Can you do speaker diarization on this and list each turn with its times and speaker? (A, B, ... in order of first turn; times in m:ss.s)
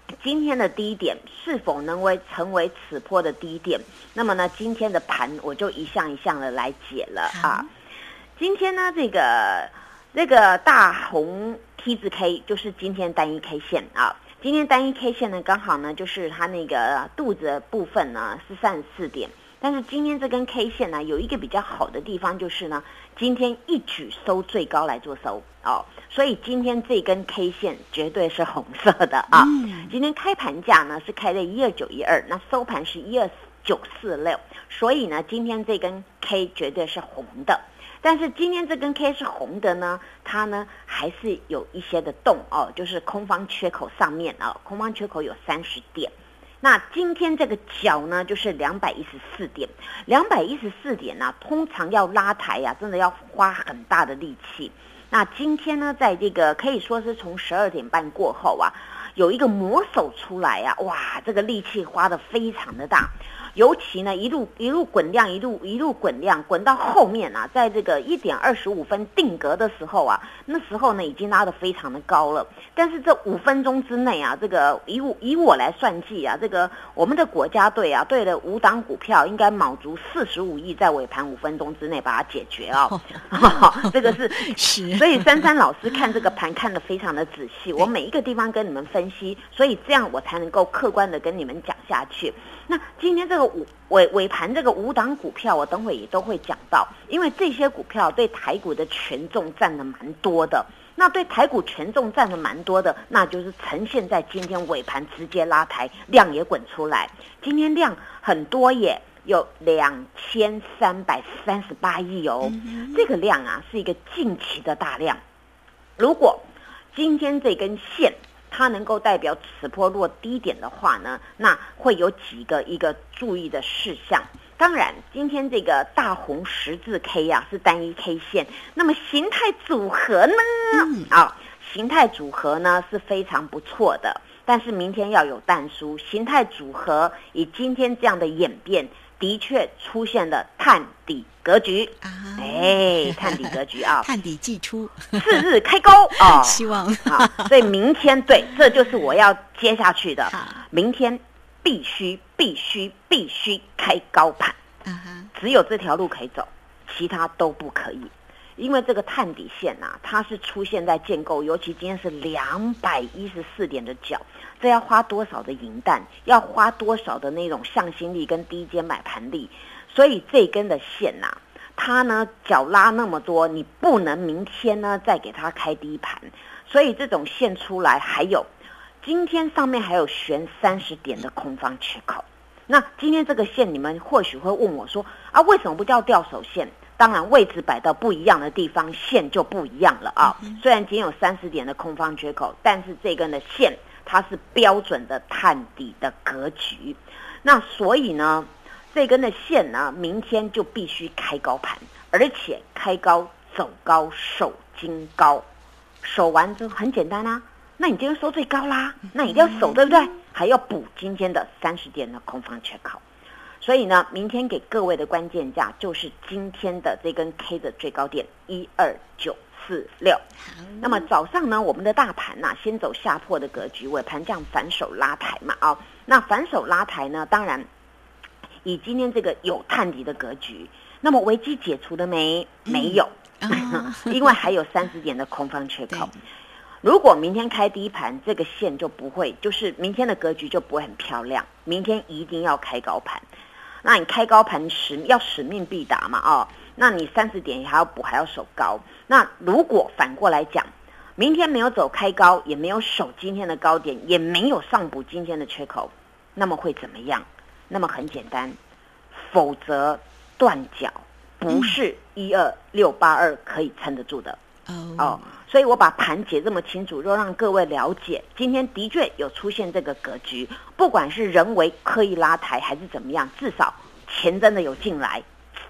0:00.2-0:07.7 A
0:07.3-0:07.7 B
0:08.4-1:55.2 A
0:29.3-0:29.9 B
1:22.9-1:25.5 B
1:52.4-1:53.1 B
1:56.0-2:24.1 A
2:10.7-2:11.1 B
2:22.0-2:25.4 B
2:25.2-2:34.6 A
2:26.2-2:27.7 B
2:30.3-2:30.6 B
2:34.8-2:35.3 B
2:35.3-2:58.5 A
2:59.0-3:25.4 A
3:10.2-3:10.6 B
3:26.0-3:33.0 A
3:33.6-3:40.2 A
3:40.4-3:41.1 B
3:40.8-3:47.7 A
3:48.6-3:56.1 A
3:52.7-3:54.4 B
3:55.9-3:56.2 B
3:56.8-4:03.2 A
4:03.8-4:18.6 A
4:19.1-4:24.4 A
4:21.5-4:21.8 B
4:24.7-4:25.3 B
4:25.0-4:35.3 A